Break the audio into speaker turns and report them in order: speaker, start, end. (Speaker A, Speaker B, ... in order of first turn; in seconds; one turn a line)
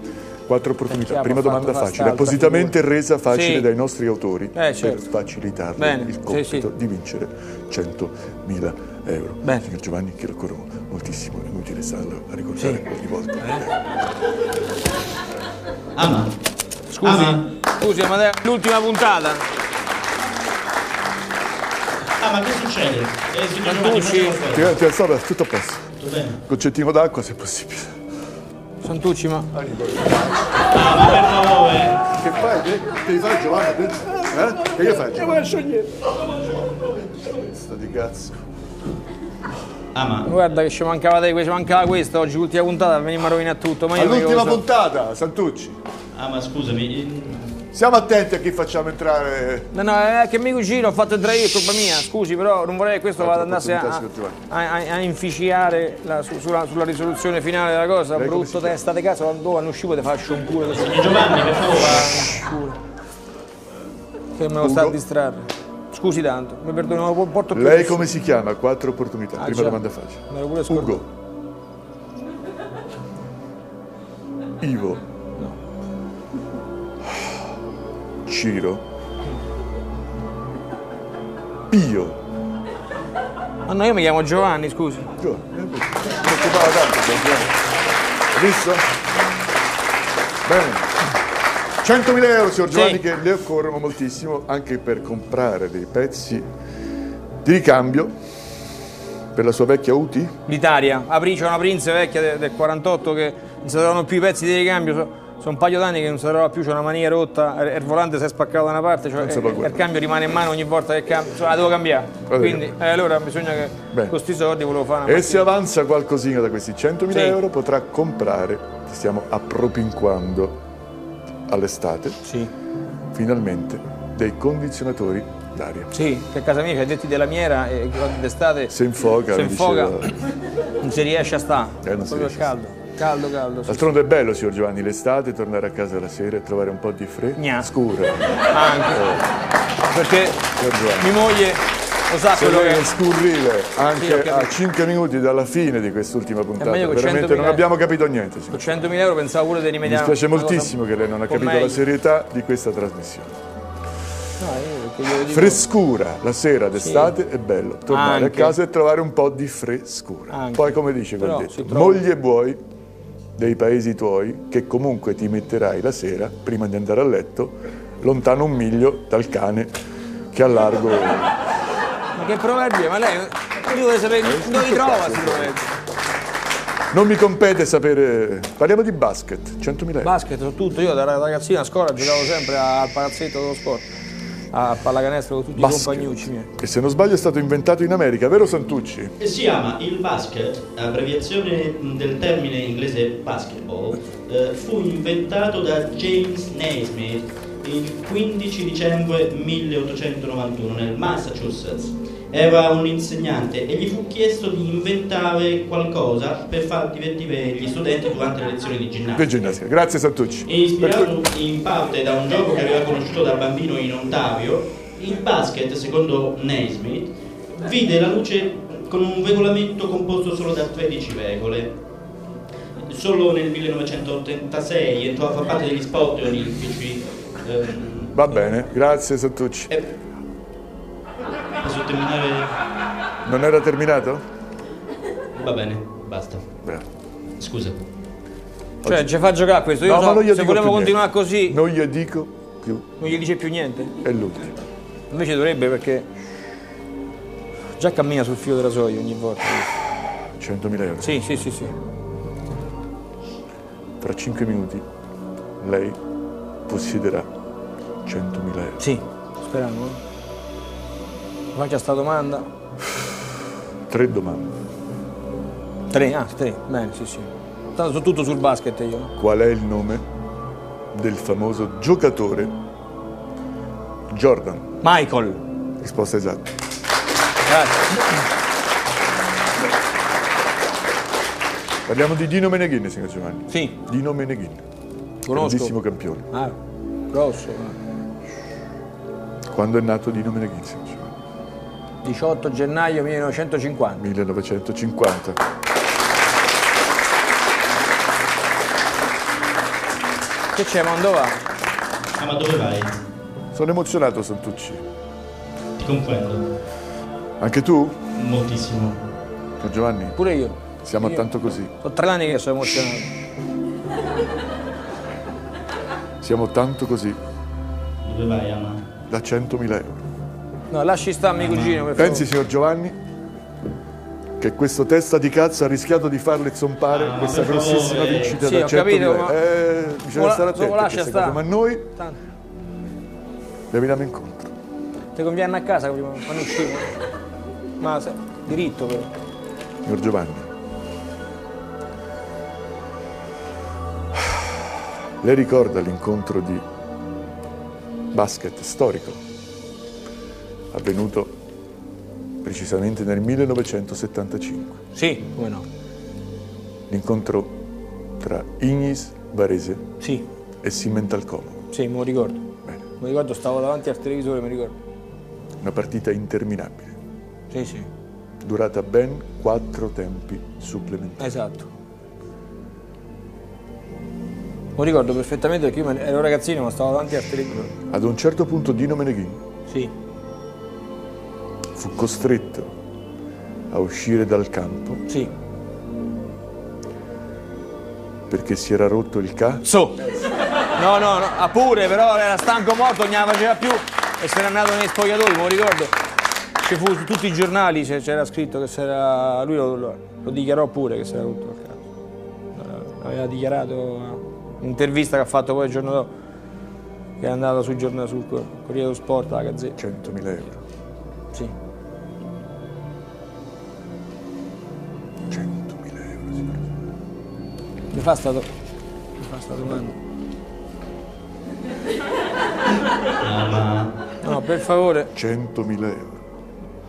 Speaker A: 0.5-13.8
Speaker B: 0.9-2.8
Speaker B: 3.3-3.7
Speaker B: 4.5-5.0
Speaker B: 5.8-6.7
Speaker B: 12.6-12.8
Speaker B: 13.4-13.7
Speaker C: 16.0-16.3
Speaker B: 16.9-19.4
Speaker C: 17.0-17.4
Speaker C: 22.2-24.7
Speaker B: 23.6-24.5
Speaker A: 24.5-25.9
Speaker C: 26.0-26.4
Speaker A: 26.5-28.0
Speaker B: 28.8-29.5
Speaker A: 29.6-30.1
Speaker C: 30.7-32.0
Speaker A: 32.1-35.5
Speaker B: 34.1-35.9
Speaker A: 36.9-38.4
Speaker C: 40.0-40.3
Speaker B: 40.3-44.6
Speaker A: 43.9-45.8
Speaker C: 46.1-47.6
Speaker A: 47.7-49.7
Speaker B: 49.7-62.8
Speaker A: 53.2-54.4
Speaker A: 58.1-58.8
Speaker C: 60.8-62.1
Speaker B: 64.4-68.1
Speaker A: 64.6-65.0
Speaker A: 67.5-71.1
Speaker B: 69.4-71.0
Speaker A: 74.6-75.0
Speaker A: 78.3-78.9
Speaker A: 81.7-82.2
Speaker B: 83.7-85.1
Speaker A: 85.2-87.5
Speaker A: 88.3-88.9
Speaker A: 90.5-90.9
Speaker A: 91.8-96.5
Speaker B: 92.7-93.0
Speaker A: 97.4-98.2
Speaker A: 99.3-100.4
Speaker B: 100.5-115.5
Speaker A: 109.2-109.8
Speaker A: 112.3-112.7
Speaker A: 113.9-114.2
Speaker A: 115.0-120.6
Speaker B: 117.1-117.4
Speaker A: 121.5-122.2
Speaker B: 122.2-122.5
Speaker A: 123.1-125.9
Speaker B: 125.9-128.8
Speaker A: 128.7-130.3
Speaker B: 129.3-130.0
Speaker B: 130.8-133.9
Speaker A: 131.8-132.6
Speaker A: 133.7-139.3
Speaker B: 137.4-137.7
Speaker B: 138.5-139.1
Speaker B: 139.9-140.4
Speaker A: 140.6-141.2
Speaker B: 141.0-142.9
Speaker A: 142.3-148.8
Speaker B: 144.0-144.5
Speaker B: 146.6-147.7
Speaker B: 148.5-150.8
Speaker A: 149.8-153.4
Speaker B: 151.3-151.8
Speaker B: 154.4-155.6
Speaker A: 155.2-162.6
Speaker B: 156.8-157.2
Speaker B: 157.9-158.6
Speaker B: 160.3-162.0
Speaker A: 163.4-169.8
Speaker A: 170.3-171.4
Speaker B: 172.2-175.7
Speaker A: 174.2-175.6
Speaker A: 176.9-180.1
Speaker B: 180.0-183.9
Speaker B: 184.5-186.5
Speaker A: 185.6-189.1
Speaker C: 189.2-209.6
Speaker A: 209.1-211.1
Speaker C: 210.5-221.8
Speaker C: 222.9-228.2
Speaker A: 228.1-229.7
Speaker C: 231.6-232.6
Speaker A: 233.2-234.2
Speaker C: 235.4-236.5
Speaker C: 237.4-237.8
Speaker A: 238.8-239.1
Speaker B: 238.8-241.6
Speaker A: 239.8-243.0
Speaker B: 243.0-243.9
Speaker A: 244.0-244.6
Speaker B: 245.1-246.1
Speaker B: 247.8-249.7
Speaker A: 250.4-251.5
Speaker B: 251.0-251.7
Speaker A: 254.0-254.9
Speaker A: 255.6-256.0
Speaker A: 256.7-257.3
Speaker A: 258.1-258.8
Speaker B: 258.8-260.0
Speaker B: 261.6-262.5
Speaker A: 263.9-264.6
Speaker B: 265.9-269.1
Speaker A: 269.2-270.1
Speaker A: 270.9-272.6
Speaker A: 274.1-274.7
Speaker B: 274.8-275.4
Speaker A: 275.8-276.5
Speaker B: 277.5-278.3
Speaker A: 281.9-284.6
Speaker B: 285.2-285.8
Speaker A: 285.3-286.3
Speaker B: 286.3-286.6
Speaker B: 287.1-287.8
Speaker A: 289.5-291.2
Speaker B: 292.0-294.0
Speaker A: 294.0-295.4
Speaker B: 300.5-301.4
Speaker C: 302.2-303.0
Speaker A: 303.6-304.8
Speaker C: 305.8-306.5
Speaker A: 307.4-308.0
Speaker C: 308.2-309.0
Speaker A: 309.6-310.2
Speaker B: 310.2-311.2
Speaker A: 310.8-311.7
Speaker B: 311.8-313.1
Speaker A: 312.6-313.0
Speaker A: 316.2-317.2
Speaker C: 318.0-318.9
Speaker A: 319.1-320.1
Speaker B: 320.7-322.3
Speaker C: 321.4-321.9
Speaker A: 322.0-323.0
Speaker A: 324.4-331.9
Speaker C: 326.9-328.4
Speaker B: 328.4-329.4
Speaker B: 330.1-331.4
Speaker A: 333.7-334.6
Speaker B: 335.1-336.9
Speaker B: 337.8-339.1
Speaker A: 339.8-340.5
Speaker A: 345.2-346.7
Speaker A: 348.1-349.2
Speaker A: 350.7-351.4
Speaker A: 352.4-354.8
Speaker B: 354.9-355.7
Speaker A: 356.9-357.6
Speaker A: 358.2-359.9
Speaker B: 360.0-360.3
Speaker A: 360.6-361.7
Speaker B: 361.7-362.5
Speaker B: 363.0-364.8
Speaker A: 365.6-367.0
Speaker B: 367.5-367.9
Speaker A: 368.4-371.4
Speaker B: 371.2-371.7
Speaker B: 374.8-377.7
Speaker A: 377.9-379.4
Speaker A: 381.8-382.7
Speaker A: 383.7-385.0
Speaker A: 388.3-389.6
Speaker B: 389.6-390.0
Speaker B: 390.8-395.9
Speaker B: 396.6-401.8
Speaker B: 402.6-406.1
Speaker B: 407.2-409.8
Speaker A: 409.8-410.6
Speaker A: 415.3-416.6
Speaker B: 417.9-418.5
Speaker B: 419.2-420.0
Speaker C: 423.2-423.9
Speaker B: 424.2-425.1
Speaker A: 425.1-426.2